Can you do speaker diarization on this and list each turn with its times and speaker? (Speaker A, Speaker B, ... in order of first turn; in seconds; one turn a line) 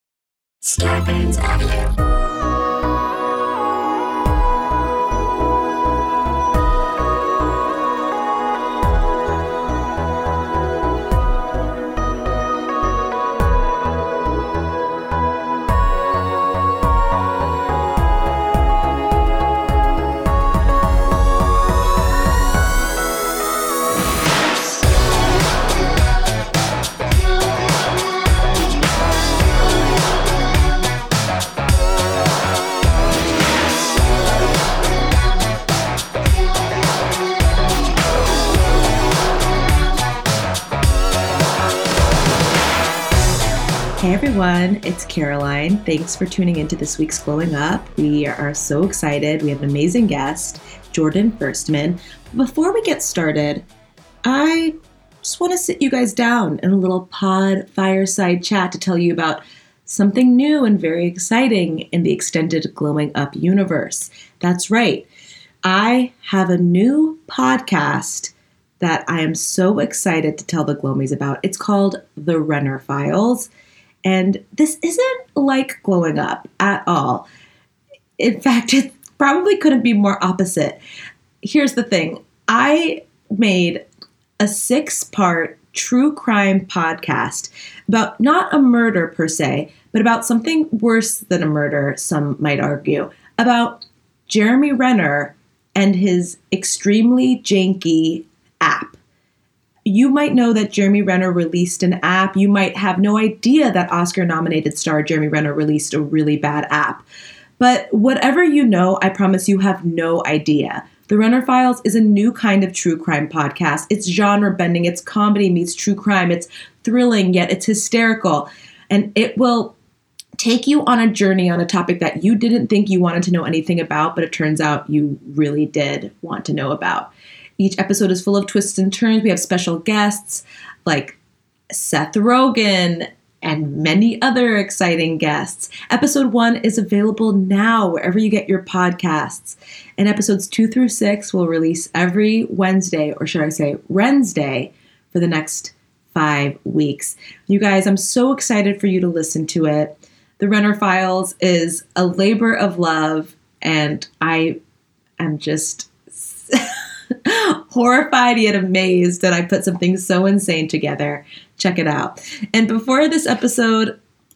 Speaker A: 44.0-53.6
Speaker A: 54.2-65.1
Speaker A: 65.7-73.5
Speaker A: 74.0-77.3
Speaker A: 78.2-80.8
Speaker A: 81.4-83.8
Speaker A: 84.4-99.0
Speaker A: 99.8-107.0
Speaker A: 107.6-119.8
Speaker A: 120.4-131.2
Speaker A: 131.7-154.6
Speaker A: 155.2-156.7
Speaker A: 157.2-164.0